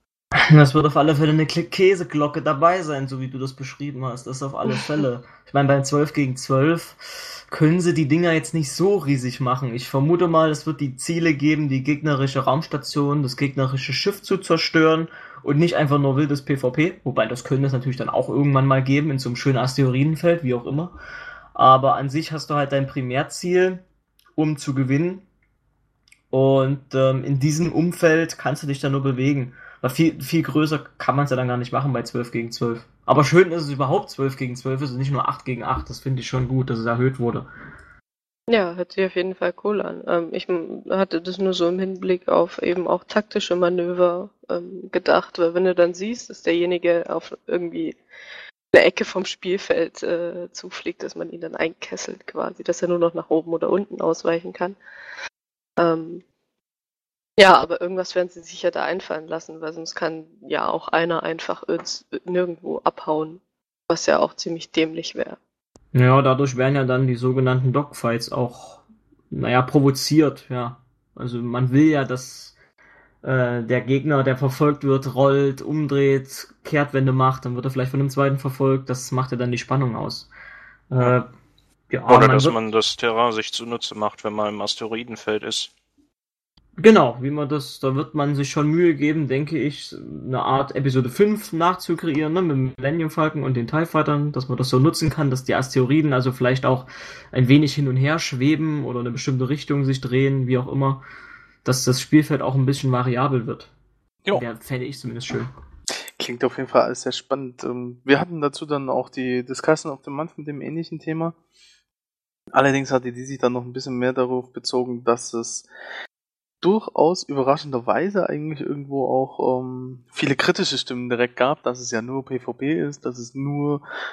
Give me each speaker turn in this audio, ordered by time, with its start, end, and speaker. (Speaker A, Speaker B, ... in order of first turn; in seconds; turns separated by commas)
Speaker A: 0.3-20.9, Speaker A: 21.5-23.8, Speaker A: 24.4-25.2, Speaker A: 26.3-37.5, Speaker B: 38.5-48.0, Speaker B: 48.7-54.8, Speaker B: 55.8-56.2, Speaker B: 57.4-65.4, Speaker A: 65.9-72.5, Speaker A: 73.2-80.3, Speaker A: 80.9-81.3, Speaker A: 81.9-82.5, Speaker C: 82.1-85.7, Speaker A: 86.8-101.0, Speaker A: 101.6-103.7, Speaker A: 104.3-105.5, Speaker D: 106.2-111.3, Speaker D: 112.5-115.7, Speaker D: 116.6-123.8